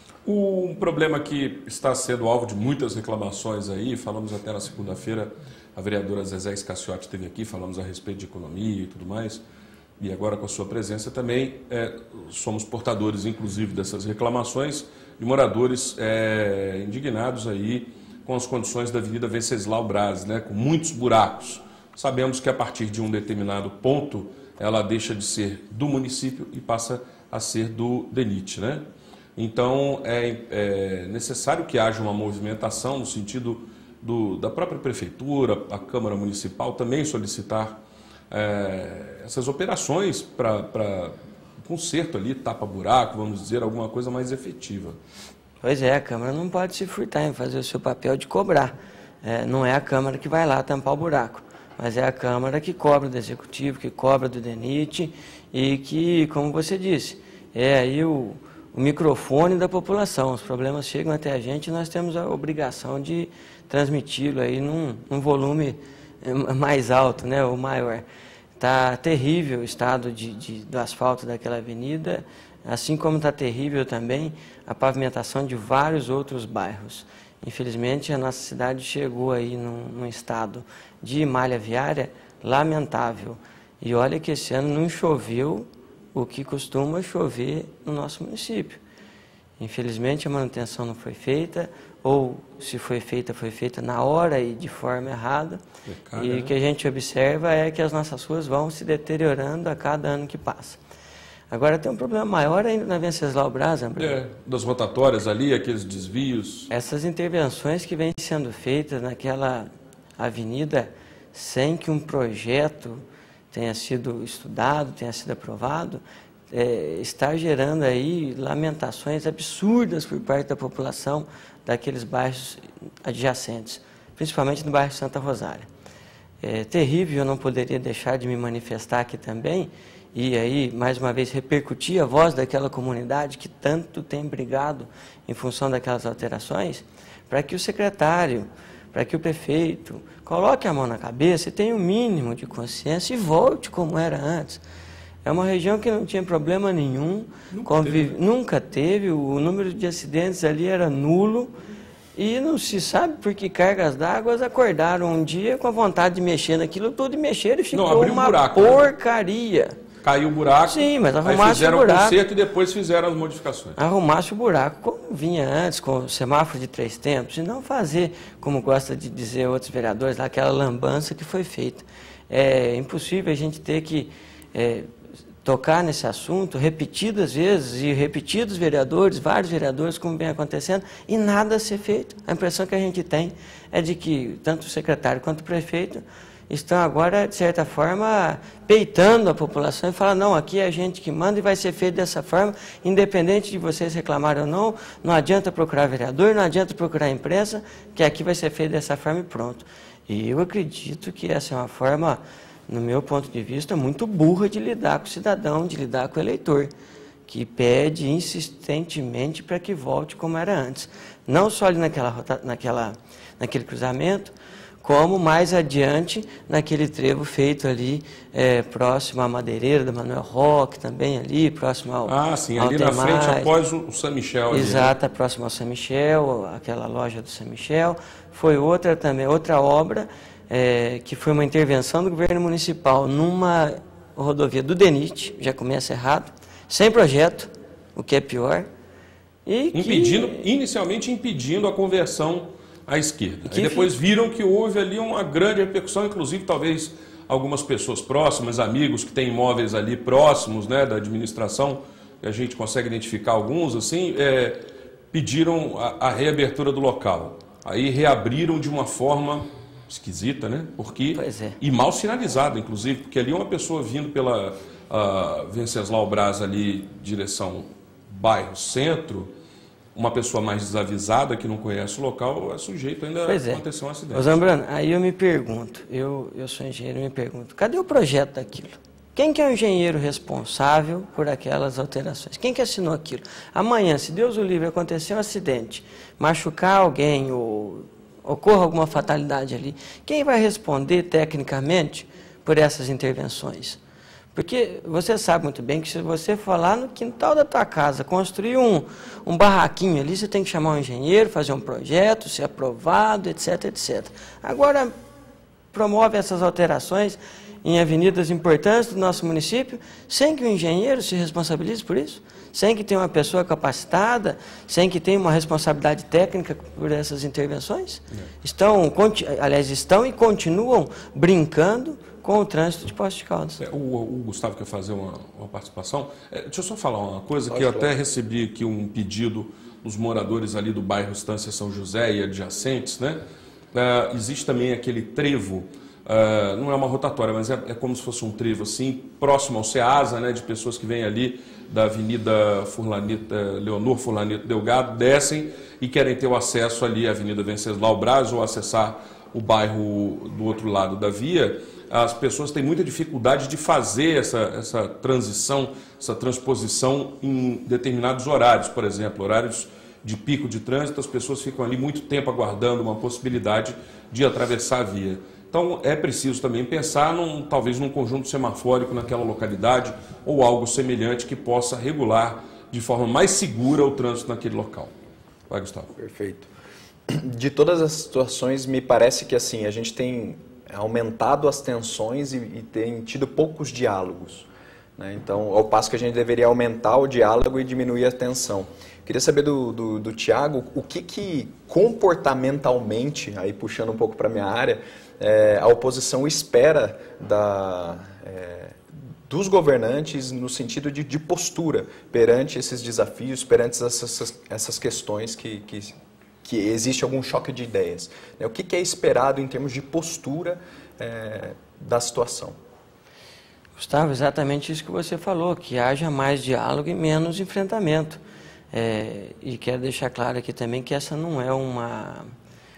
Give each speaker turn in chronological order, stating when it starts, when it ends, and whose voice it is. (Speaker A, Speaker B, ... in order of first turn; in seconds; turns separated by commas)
Speaker A: 0.2-9.4, Speaker A: 10.0-37.8, Speaker A: 38.3-45.0, Speaker B: 45.6-68.0, Speaker B: 68.6-88.8, Speaker B: 89.6-95.6, Speaker A: 95.9-96.5, Speaker B: 96.2-100.8, Speaker B: 101.5-104.2, Speaker A: 104.0-106.7, Speaker B: 106.7-125.7, Speaker B: 126.4-144.6, Speaker B: 145.2-151.6, Speaker A: 147.5-148.2, Speaker B: 152.2-159.8, Speaker A: 157.7-158.9, Speaker A: 160.0-163.8, Speaker B: 160.7-162.2, Speaker B: 163.8-174.9, Speaker B: 175.4-206.7, Speaker B: 207.3-223.5, Speaker A: 222.1-224.9, Speaker B: 224.5-238.7, Speaker B: 239.5-240.5, Speaker A: 239.7-269.3, Speaker B: 243.5-243.9, Speaker B: 261.1-261.6, Speaker A: 269.9-274.4, Speaker B: 273.3-293.8, Speaker B: 294.4-304.9, Speaker B: 305.7-323.6, Speaker A: 323.6-333.2, Speaker C: 327.5-327.9, Speaker A: 333.7-374.9, Speaker A: 375.5-375.9, Speaker C: 376.0-376.5, Speaker C: 377.1-412.6, Speaker B: 413.8-418.2, Speaker B: 418.7-422.3